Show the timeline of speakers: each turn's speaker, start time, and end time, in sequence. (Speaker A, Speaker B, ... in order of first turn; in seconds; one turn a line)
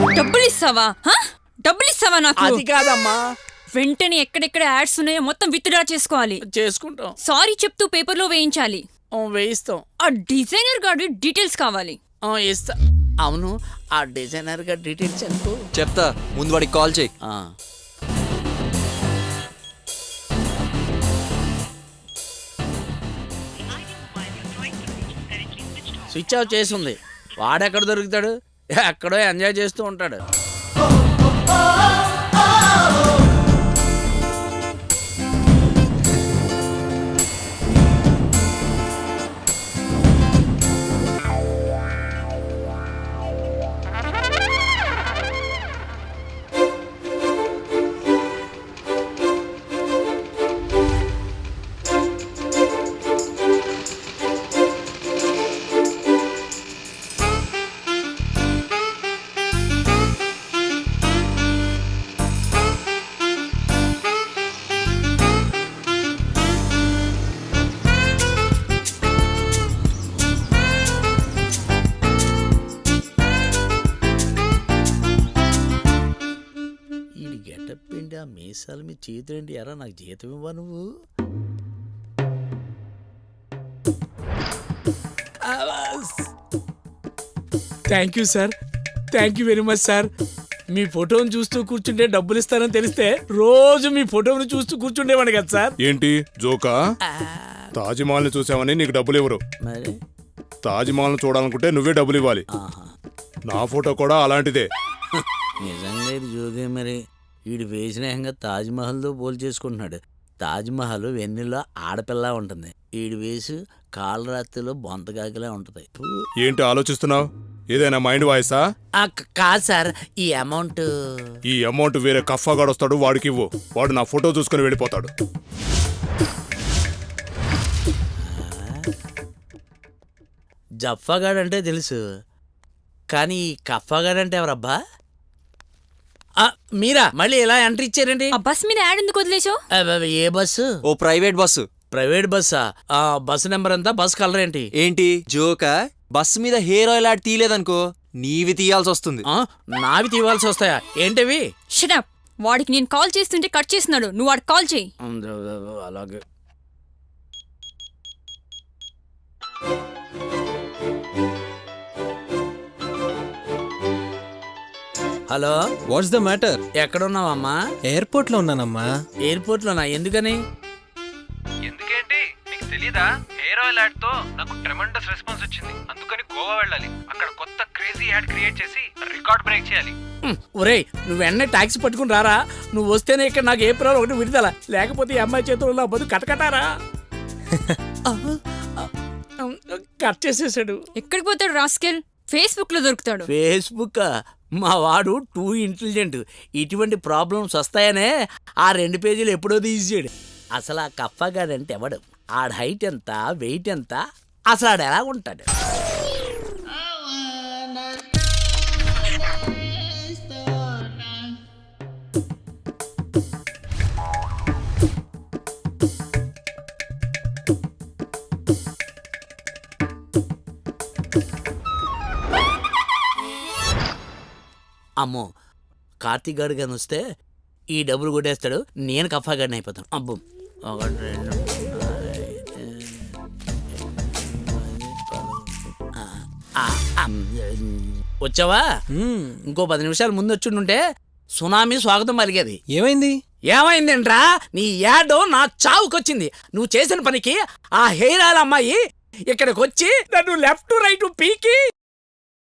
Speaker A: 0.1-2.6
Speaker B: 2.4-3.2
Speaker A: 3.8-6.4
Speaker B: 6.6-7.1
Speaker A: 7.2-8.8
Speaker B: 9.2-9.8
Speaker A: 10.0-12.0
Speaker B: 12.3-12.8
Speaker B: 13.3-15.6
Speaker C: 15.8-17.1
Speaker B: 26.1-28.3
Speaker B: 28.8-30.2
Speaker B: 77.2-80.9
Speaker B: 85.5-86.2
Speaker B: 87.9-88.5
Speaker B: 89.1-90.1
Speaker B: 90.7-95.7
Speaker D: 95.8-96.7
Speaker B: 97.1-97.7
Speaker D: 97.8-99.4
Speaker B: 99.7-100.0
Speaker D: 100.6-102.5
Speaker B: 102.6-102.9
Speaker D: 103.5-104.7
Speaker B: 105.6-116.1
Speaker D: 116.4-118.6
Speaker B: 119.0-120.9
Speaker D: 121.5-125.1
Speaker B: 128.2-128.9
Speaker B: 130.8-132.0
Speaker B: 133.1-134.8
Speaker B: 136.4-138.3
Speaker A: 138.4-139.6
Speaker B: 139.8-140.6
Speaker C: 140.9-141.7
Speaker B: 141.9-144.7
Speaker C: 144.8-149.2
Speaker B: 149.3-151.4
Speaker A: 151.7-154.9
Speaker B: 155.1-156.2
Speaker B: 165.3-165.6
Speaker E: 165.9-166.6
Speaker B: 166.8-167.6
Speaker E: 167.9-168.9
Speaker B: 169.3-170.4
Speaker F: 171.7-179.9
Speaker B: 180.2-186.7
Speaker B: 188.1-188.9
Speaker B: 189.4-190.8
Speaker A: 191.0-193.3
Speaker B: 193.2-194.1
Speaker B: 194.6-198.1
Speaker B: 198.7-204.0
Speaker B: 204.5-205.5
Speaker B: 225.0-225.3
Speaker B: 226.0-227.0
Speaker B: 227.8-233.1
Speaker B: 234.2-238.6
Speaker E: 238.9-239.4
Speaker B: 239.5-240.8
Speaker B: 241.4-242.6
Speaker E: 242.7-243.2
Speaker B: 243.5-248.8
Speaker B: 249.3-251.6